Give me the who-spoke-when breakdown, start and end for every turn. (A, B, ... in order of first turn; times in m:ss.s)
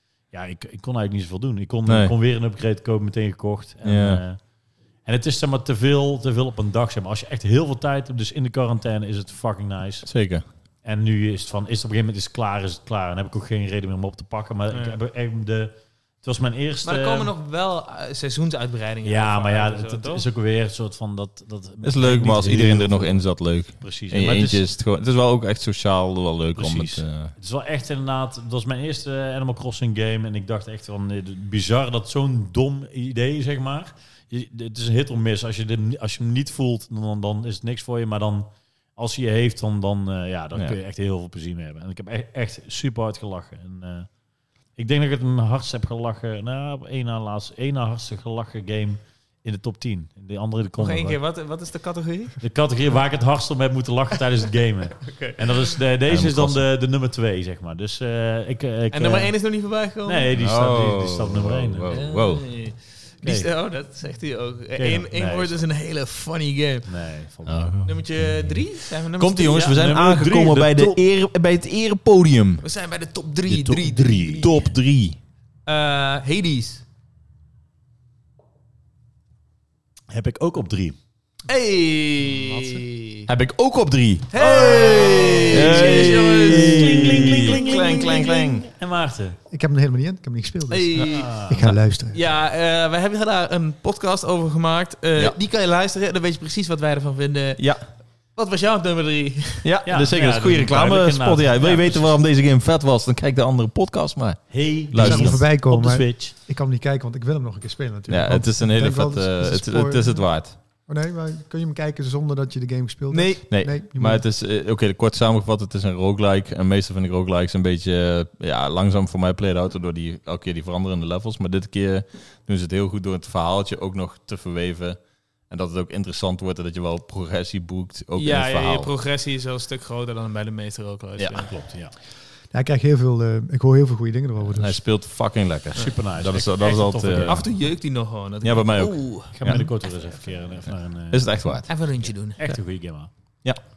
0:00.3-0:04.4 A
0:01.9-0:02.1 B
0:03.8-0:04.2 B
0:05.0-0:10.3 A
0:10.0-0:10.4 B
0:10.8-0:17.3 A
0:14.7-0:15.0 C
0:16.8-0:20.3 C
0:19.0-0:24.6 A
0:21.8-0:27.3 B
0:26.6-0:44.1 A
0:44.7-0:51.2 A
0:50.8-0:52.4 C
0:52.4-1:02.0 A
0:55.0-0:55.8 C
0:56.1-0:56.6 B
0:58.9-1:00.3 C
1:00.3-1:02.5 B
1:01.9-1:07.0 C
1:03.2-1:03.5 A
1:04.8-1:05.6 A
1:06.9-1:07.8 A
1:07.5-1:08.6 B
1:07.8-1:09.7 C
1:09.2-1:12.6 B
1:09.5-1:11.0 A
1:12.6-1:14.7 C
1:13.5-1:14.4 A
1:14.0-1:15.2 B
1:15.7-1:16.8 C
1:20.1-1:21.0 A
1:21.5-1:23.3 C
1:23.3-1:28.7 B
1:24.3-1:28.4 C
1:24.4-1:29.4 A
1:29.5-1:32.2 D
1:30.7-1:31.6 C
1:31.0-1:31.6 A
1:32.1-1:39.8 C
1:37.6-1:37.8 B
1:39.6-1:45.4 B
1:39.9-1:42.2 A
1:44.5-1:46.4 A
1:45.0-1:54.2 D
1:48.1-1:50.6 B
1:53.1-2:08.9 B
2:08.2-2:11.5 C
2:11.2-2:11.5 B
2:11.4-2:11.9 A
2:12.5-2:14.8 D
2:14.5-2:17.7 B
2:15.8-2:17.5 A
2:17.2-2:19.3 C
2:18.4-2:19.7 B
2:19.3-2:23.1 A
2:21.1-2:21.7 B
2:21.7-2:22.4 C